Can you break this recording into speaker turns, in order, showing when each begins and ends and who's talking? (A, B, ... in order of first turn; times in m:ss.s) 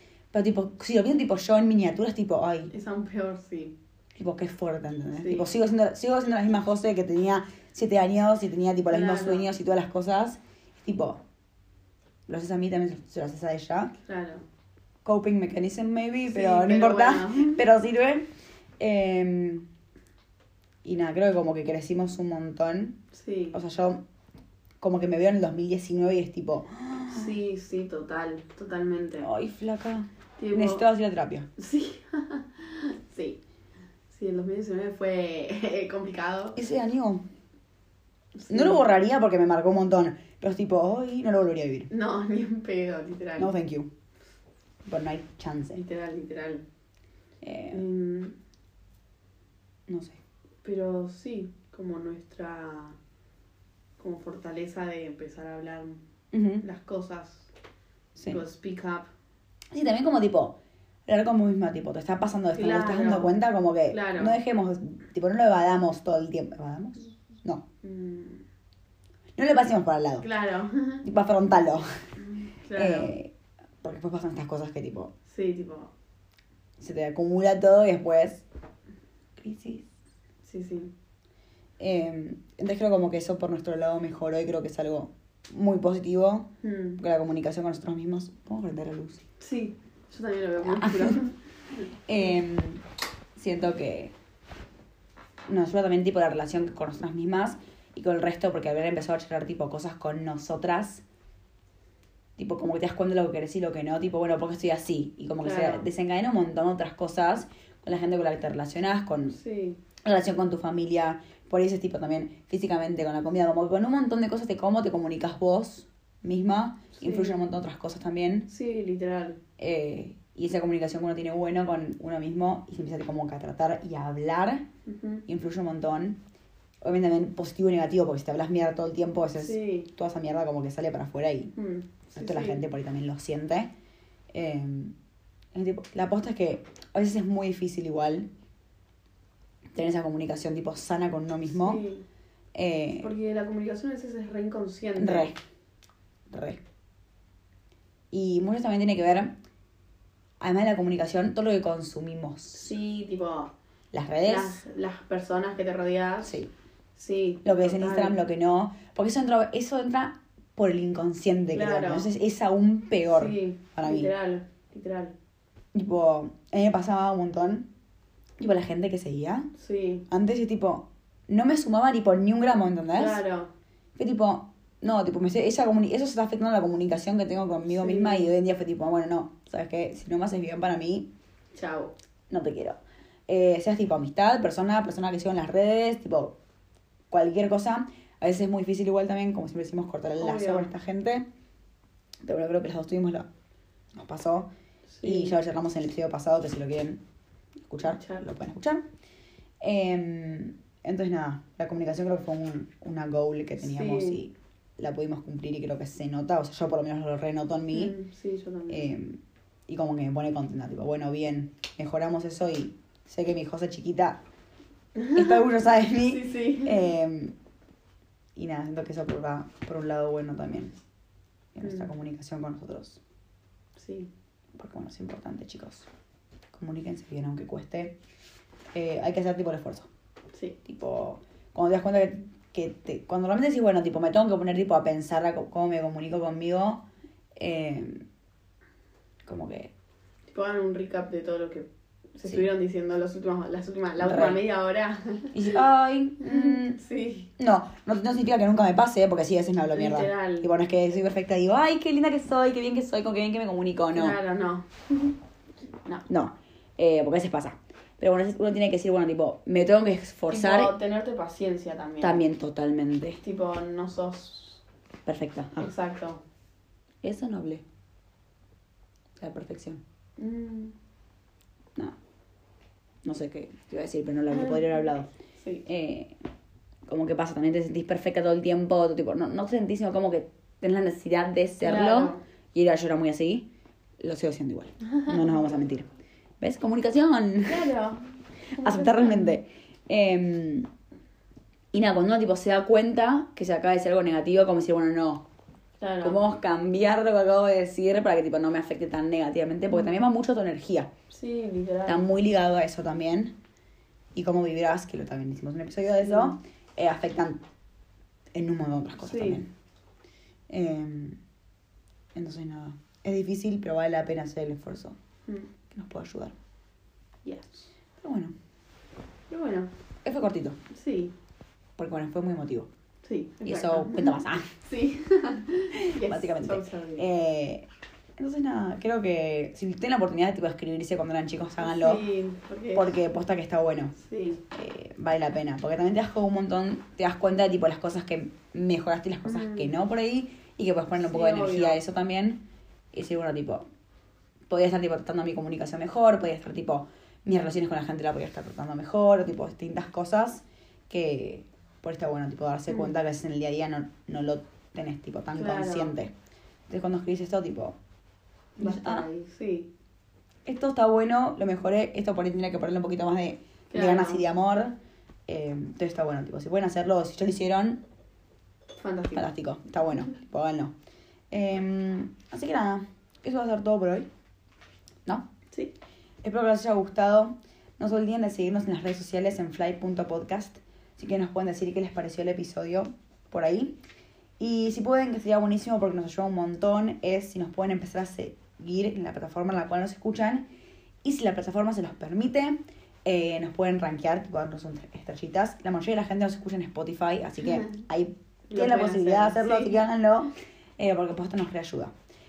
0:00.3-0:02.7 A
0:02.7-0:03.8 B
0:04.2-0:11.2 A
0:05.2-0:05.5 B
0:08.9-0:09.5 B
0:12.3-0:13.9 A
0:14.0-0:14.4 B
0:15.0-0:18.3 A
0:16.3-0:17.6 B
0:18.8-0:19.7 A
0:20.8-0:23.0 A
0:23.1-0:23.6 B
0:23.5-0:24.0 A
0:24.8-0:27.4 A
0:27.1-0:29.3 B
0:29.2-0:31.5 A
0:30.4-0:30.8 B
0:31.6-0:33.4 B
0:34.1-0:36.6 B
0:36.5-0:37.3 A
0:38.3-0:38.8 B
0:38.5-0:41.9 A
0:41.9-0:43.5 B
0:43.4-0:43.9 A
0:44.8-0:45.8 A
0:45.7-0:46.6 B
0:47.4-0:47.8 A
0:47.7-0:48.4 B
0:49.9-0:50.2 A
0:50.6-0:53.0 B
0:54.0-0:56.0 B
0:56.3-0:56.6 A
0:56.6-0:57.5 B
0:58.2-0:59.1 B
0:59.7-1:07.6 A
1:02.5-1:03.3 B
1:03.9-1:04.4 B
1:07.8-1:08.4 B
1:09.4-1:10.2 A
1:10.2-1:11.0 B
1:11.0-1:11.8 A
1:12.2-1:13.1 B
1:12.8-1:15.1 A
1:15.3-1:15.9 B
1:16.8-1:18.4 A
1:19.4-1:19.9 A
1:20.4-1:20.9 B
1:21.8-1:29.2 A
1:26.6-1:27.0 B
1:29.4-1:31.3 B
1:30.6-1:31.3 A
1:32.1-1:32.8 A
1:33.4-1:34.1 A
1:35.5-1:41.0 A
1:42.4-1:49.4 A
1:45.4-1:45.9 B
1:49.3-1:49.8 B
1:50.0-1:58.5 A
1:56.9-1:57.4 B
1:58.5-1:59.4 B
1:59.6-2:04.6 A
2:04.8-2:05.2 B
2:05.3-2:06.2 A
2:06.8-2:11.5 A
2:09.4-2:09.9 B
2:11.6-2:12.6 B
2:12.1-2:13.7 A
2:14.3-2:15.0 A
2:15.5-2:18.3 A
2:19.7-2:21.8 A
2:21.5-2:22.0 B
2:22.5-2:23.1 A
2:23.0-2:25.3 B
2:25.0-2:25.4 A
2:26.3-2:26.6 A
2:28.1-2:29.3 A
2:30.4-2:32.7 A
2:32.5-2:33.5 B
2:33.9-2:34.6 A
2:34.2-2:36.4 B
2:36.2-2:36.5 A
2:37.0-2:38.2 B
2:37.4-2:44.1 A
2:41.5-2:42.1 B
2:43.1-2:45.1 B
2:45.7-2:47.7 A
2:48.4-2:49.5 A
2:49.6-2:50.1 B
2:50.1-2:53.2 A
2:52.9-2:53.5 B
2:54.0-3:01.1 A
2:57.7-2:58.3 B
3:01.5-3:01.9 B
3:02.3-3:06.4 A
3:07.1-3:11.2 A
3:10.2-3:10.7 B
3:12.2-3:13.3 A
3:13.9-3:14.5 A
3:14.9-3:15.4 B
3:15.0-3:17.0 A
3:17.7-3:18.8 A
3:17.8-3:18.2 B
3:19.6-3:27.9 A
3:23.6-3:24.2 B
3:27.7-3:28.9 B
3:28.7-3:34.2 A
3:35.0-3:35.4 B
3:35.1-3:37.4 A
3:36.0-3:36.9 B
3:38.3-3:40.7 A
3:41.5-3:43.0 A
3:41.6-3:41.9 B
3:43.8-3:44.1 B
3:44.5-3:45.9 A
3:46.5-3:48.0 A
3:48.7-3:49.9 A
3:50.6-3:56.8 A
3:57.4-3:58.0 A
3:59.2-3:59.7 A
4:00.3-4:05.3 B
4:04.0-4:04.4 A
4:05.3-4:06.8 A
4:06.2-4:07.3 B
4:07.4-4:14.2 A
4:09.7-4:10.5 B
4:13.9-4:15.2 B
4:16.1-4:20.7 A
4:20.3-4:22.2 B
4:22.0-4:23.2 A
4:23.2-4:24.6 B
4:25.0-4:25.7 A
4:25.6-4:26.2 B
4:27.0-4:27.6 A
4:29.2-4:29.8 A
4:30.2-4:30.7 B
4:33.0-4:35.1 A
4:34.3-4:34.8 B
4:35.4-4:35.6 B
4:35.6-4:36.2 A
4:36.9-4:43.5 A
4:41.6-4:42.2 B
4:44.0-4:45.8 A
4:44.9-4:45.2 B
4:46.4-4:47.7 A
4:47.4-4:49.4 B
4:48.6-4:50.7 A
4:51.7-4:55.2 A
4:55.8-4:56.2 B
4:56.0-5:00.9 A
4:59.7-5:00.0 B
5:01.1-5:02.0 B
5:01.8-5:03.4 A
5:04.1-5:07.4 A
5:06.0-5:06.3 B
5:08.3-5:09.5 A
5:09.0-5:09.4 B
5:10.5-5:11.2 A
5:12.1-5:15.0 A
5:15.7-5:16.3 A
5:17.2-5:17.7 B
5:18.0-5:18.3 A
5:19.3-5:19.7 B
5:20.0-5:20.6 A
5:20.7-5:21.1 B
5:21.8-5:22.7 A
5:23.0-5:27.1 B
5:23.4-5:24.5 A
5:25.9-5:32.0 A
5:31.6-5:32.9 B
5:32.7-5:33.9 A
5:34.0-5:34.4 B
5:34.5-5:43.6 A
5:39.2-5:39.8 B
5:40.9-5:41.8 B
5:44.5-5:56.1 A
5:55.3-5:55.9 B
5:56.7-5:57.8 A
5:58.6-5:59.0 A
5:58.6-5:59.7 B
6:00.4-6:04.8 A
6:03.7-6:04.2 B
6:05.3-6:07.8 A
6:08.8-6:09.3 B
6:09.1-6:10.7 A
6:11.3-6:14.1 A
6:16.2-6:23.8 A
6:24.4-6:30.5 A
6:31.0-6:41.9 A
6:37.4-6:37.7 B
6:38.5-6:39.8 B